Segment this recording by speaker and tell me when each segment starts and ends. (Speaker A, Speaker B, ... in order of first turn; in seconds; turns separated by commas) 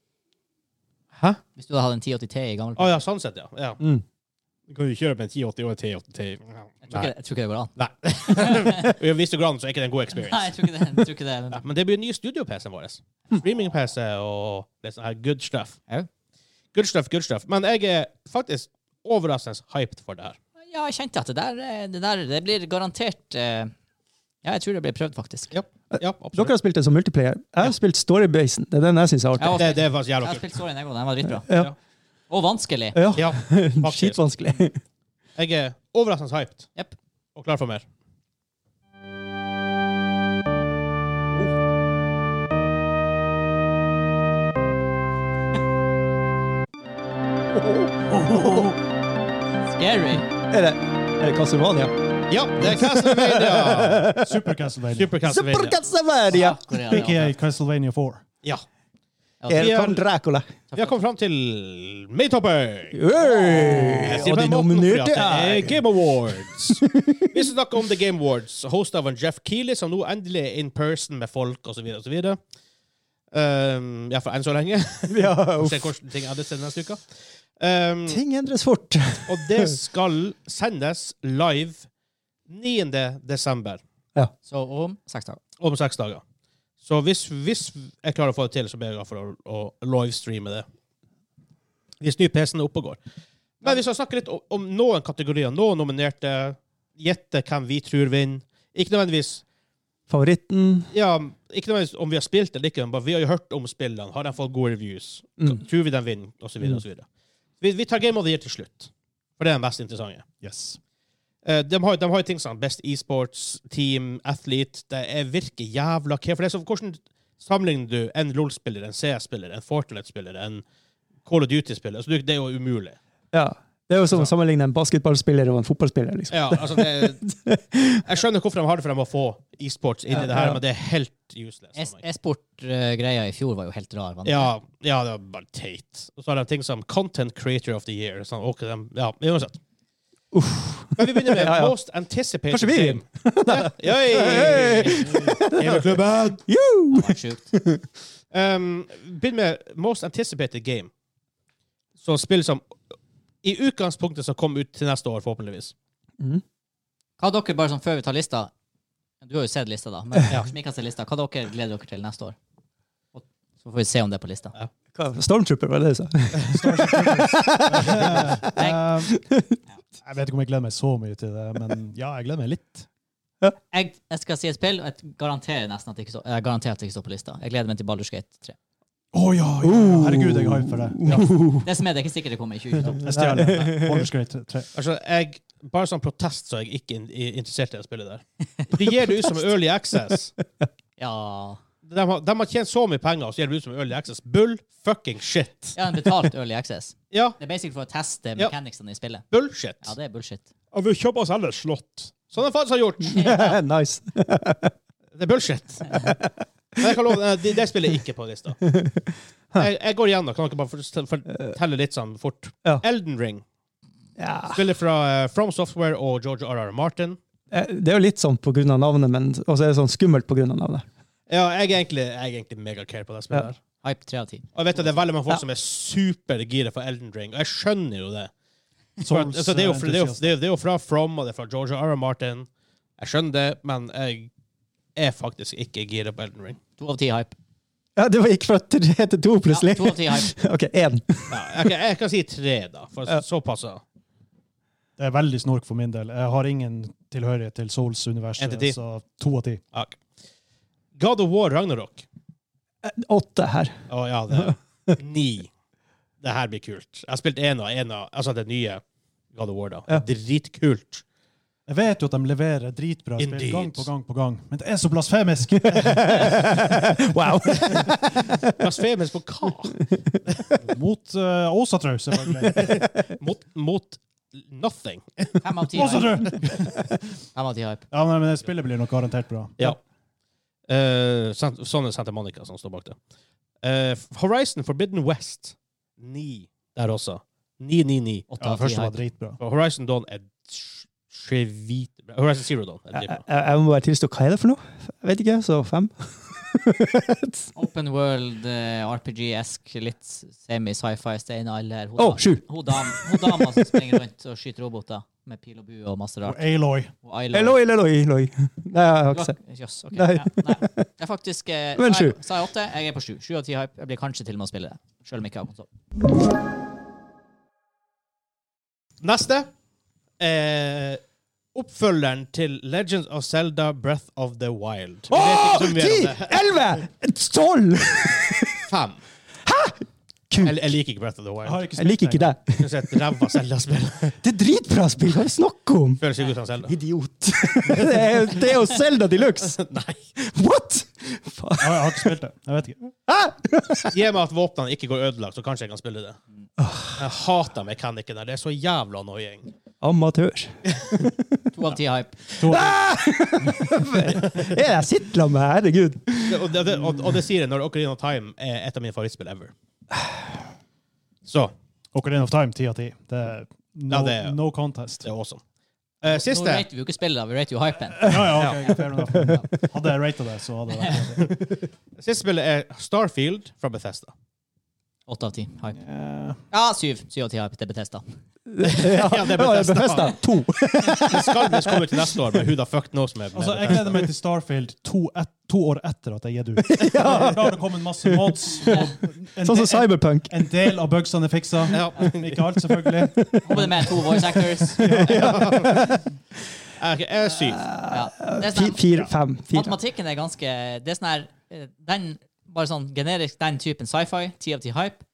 Speaker A: 1.1-1.4, Speaker B: 1.6-2.9, Speaker A: 2.8-3.8, Speaker A: 4.7-7.1, Speaker B: 6.9-8.9, Speaker A: 7.8-10.7, Speaker B: 10.1-11.6, Speaker A: 11.5-15.8, Speaker A: 16.7-20.4, Speaker B: 20.6-23.7, Speaker B: 24.4-25.5, Speaker A: 25.5-26.5, Speaker C: 25.9-29.6, Speaker B: 29.4-31.5, Speaker A: 29.5-30.4, Speaker C: 31.5-31.7, Speaker B: 32.3-33.0, Speaker C: 32.9-34.8, Speaker A: 33.1-34.2, Speaker A: 35.4-36.7, Speaker A: 37.4-37.9, Speaker C: 47.6-48.7, Speaker B: 49.7-50.3, Speaker C: 50.4-51.9, Speaker A: 52.3-54.1, Speaker C: 52.6-54.5, Speaker D: 54.2-55.2, Speaker A: 55.0-55.8, Speaker C: 55.2-57.1, Speaker B: 56.3-57.3, Speaker D: 56.9-58.2, Speaker B: 59.4-59.7, Speaker C: 59.5-60.5, Speaker A: 59.5-60.0, Speaker B: 60.7-61.0, Speaker A: 60.8-63.0, Speaker C: 62.9-65.8, Speaker B: 63.5-64.0, Speaker A: 63.8-72.4, Speaker C: 66.5-67.5, Speaker A: 73.3-77.1, Speaker C: 75.1-75.9, Speaker A: 77.6-78.2, Speaker C: 78.1-79.7, Speaker A: 79.3-81.9, Speaker A: 82.5-83.8, Speaker B: 84.5-85.4, Speaker A: 85.6-86.2, Speaker A: 86.8-90.7, Speaker A: 92.0-93.0, Speaker A: 93.6-99.4, Speaker C: 100.1-100.9, Speaker A: 100.9-107.0, Speaker A: 107.6-110.2, Speaker D: 110.4-110.8, Speaker A: 111.4-120.6, Speaker A: 121.2-123.0, Speaker C: 123.3-128.0, Speaker A: 124.1-124.3, Speaker A: 126.3-127.2, Speaker A: 128.0-132.0, Speaker C: 130.1-130.6, Speaker B: 131.8-134.5, Speaker A: 134.2-139.6, Speaker C: 140.3-141.7, Speaker A: 141.0-146.4, Speaker C: 142.5-147.8, Speaker D: 145.0-145.4, Speaker B: 146.9-147.5, Speaker A: 148.3-150.9, Speaker A: 152.0-152.7, Speaker A: 153.4-155.7, Speaker B: 157.2-158.5, Speaker B: 159.2-162.4, Speaker B: 163.1-164.5, Speaker C: 164.9-168.5, Speaker D: 166.4-169.2, Speaker B: 168.6-168.9, Speaker C: 169.1-169.6, Speaker D: 170.0-172.9, Speaker B: 173.7-178.6, Speaker D: 179.1-181.4, Speaker C: 179.6-181.6, Speaker B: 181.6-183.1, Speaker D: 182.9-184.7, Speaker C: 182.9-184.1, Speaker A: 184.7-190.3, Speaker B: 191.0-191.6, Speaker A: 191.8-195.8, Speaker B: 195.8-199.2, Speaker A: 197.1-197.4, Speaker A: 199.3-199.9, Speaker B: 199.8-200.5, Speaker A: 200.7-203.6, Speaker C: 203.1-204.7, Speaker B: 203.1-203.4, Speaker A: 205.2-206.2, Speaker C: 205.9-206.9, Speaker A: 206.8-208.6, Speaker C: 208.6-209.7, Speaker A: 209.6-213.4, Speaker C: 214.2-214.6, Speaker A: 214.5-217.2, Speaker C: 217.5-220.9, Speaker A: 221.3-223.6, Speaker B: 223.8-224.5, Speaker A: 224.6-228.3, Speaker D: 229.0-230.3, Speaker A: 229.1-234.3, Speaker A: 235.0-236.6, Speaker B: 236.8-237.3, Speaker C: 238.0-241.7, Speaker B: 239.5-240.3, Speaker A: 241.3-243.8, Speaker D: 245.0-249.6, Speaker A: 248.4-248.8, Speaker A: 249.7-250.0, Speaker A: 251.0-252.1, Speaker C: 252.8-253.8, Speaker A: 253.9-255.5, Speaker C: 254.3-254.9, Speaker A: 256.2-258.8, Speaker A: 259.3-261.0, Speaker D: 261.7-266.7, Speaker A: 263.2-263.9, Speaker C: 265.7-268.6, Speaker D: 267.5-267.9, Speaker A: 268.6-270.5, Speaker D: 270.6-272.8, Speaker A: 272.5-275.4, Speaker B: 275.4-276.2, Speaker D: 275.7-276.9, Speaker B: 277.3-277.9, Speaker D: 277.9-279.7, Speaker A: 280.7-283.0, Speaker A: 283.6-288.3, Speaker B: 288.4-289.0, Speaker D: 288.4-289.4, Speaker A: 289.4-293.2, Speaker C: 292.9-297.5, Speaker B: 297.6-307.6, Speaker C: 302.0-303.8, Speaker D: 306.2-306.9, Speaker C: 307.3-309.4, Speaker B: 309.1-315.7, Speaker C: 309.9-310.9, Speaker C: 311.8-312.2, Speaker A: 319.0-319.5, Speaker A: 320.2-321.0, Speaker A: 321.5-326.6, Speaker C: 325.1-328.7, Speaker A: 328.7-329.0, Speaker C: 329.4-330.7, Speaker A: 330.4-331.6, Speaker D: 331.4-332.3, Speaker C: 331.8-332.7, Speaker A: 332.6-334.2, Speaker C: 334.2-336.0, Speaker A: 336.0-336.7, Speaker C: 336.6-339.6, Speaker A: 339.6-340.0, Speaker C: 340.2-342.1, Speaker D: 341.6-342.9, Speaker C: 343.1-344.0, Speaker A: 343.9-346.2, Speaker C: 346.6-347.1, Speaker A: 347.0-349.5, Speaker C: 349.8-351.3, Speaker A: 350.8-351.0, Speaker B: 351.5-352.2, Speaker D: 352.4-352.8, Speaker C: 352.4-356.6, Speaker D: 354.1-354.4, Speaker A: 356.3-359.5, Speaker A: 361.3-361.5, Speaker D: 361.9-365.1, Speaker A: 363.9-364.4, Speaker A: 365.0-365.4, Speaker A: 366.0-366.7, Speaker B: 366.0-368.4, Speaker D: 368.0-371.3, Speaker A: 368.4-368.7, Speaker B: 370.7-371.0, Speaker A: 372.0-374.1, Speaker B: 375.1-375.8, Speaker D: 375.8-376.4, Speaker B: 376.5-378.2, Speaker C: 378.5-382.3, Speaker A: 378.6-380.2, Speaker A: 380.8-384.1, Speaker D: 383.3-394.2, Speaker C: 386.6-388.9, Speaker B: 388.6-388.9, Speaker C: 389.4-390.8, Speaker A: 391.7-392.3, Speaker C: 392.0-396.0, Speaker B: 393.4-395.0, Speaker D: 394.8-395.7, Speaker A: 395.1-396.0, Speaker A: 396.8-397.7, Speaker C: 397.4-399.8, Speaker B: 397.9-405.0